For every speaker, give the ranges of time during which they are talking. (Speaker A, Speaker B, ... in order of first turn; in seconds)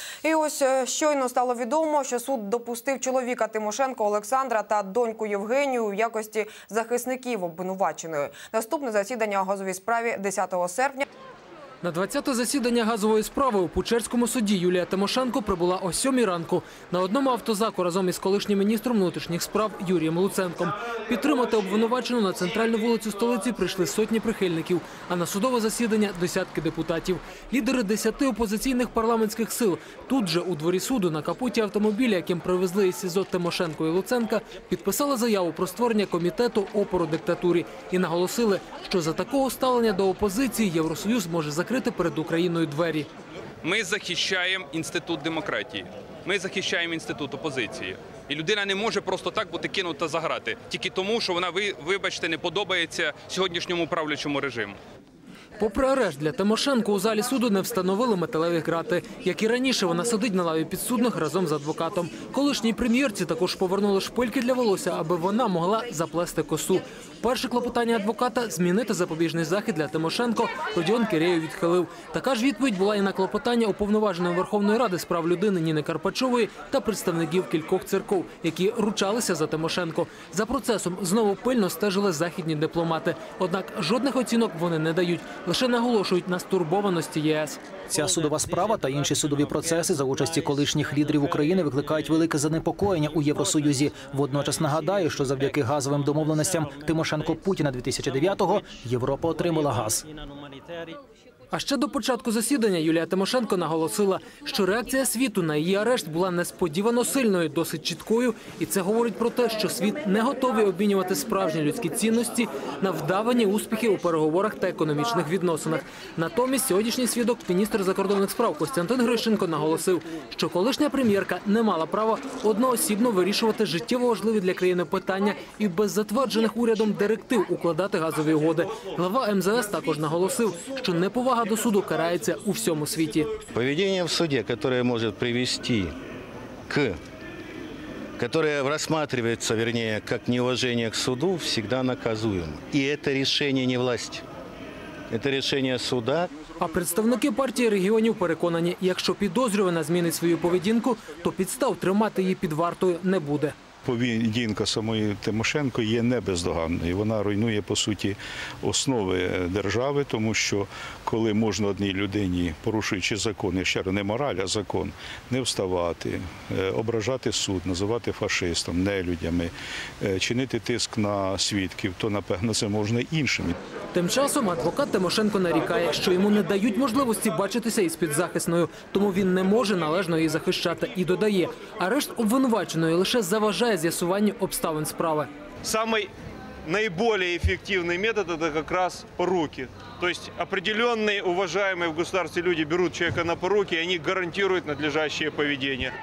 Speaker A: 0.2-11.1
Speaker B: 11.8-43.1, 55.6-87.6, 101.5-133.3, 146.6-153.5, 173.9-185.3
Speaker C: 43.6-54.8
Speaker D: 87.9-100.1
Speaker E: 133.5-135.9, 136.7-137.0, 138.2-144.2, 145.1-146.3
Speaker F: 153.8-173.6
Speaker G: 185.6-186.1, 186.6-195.9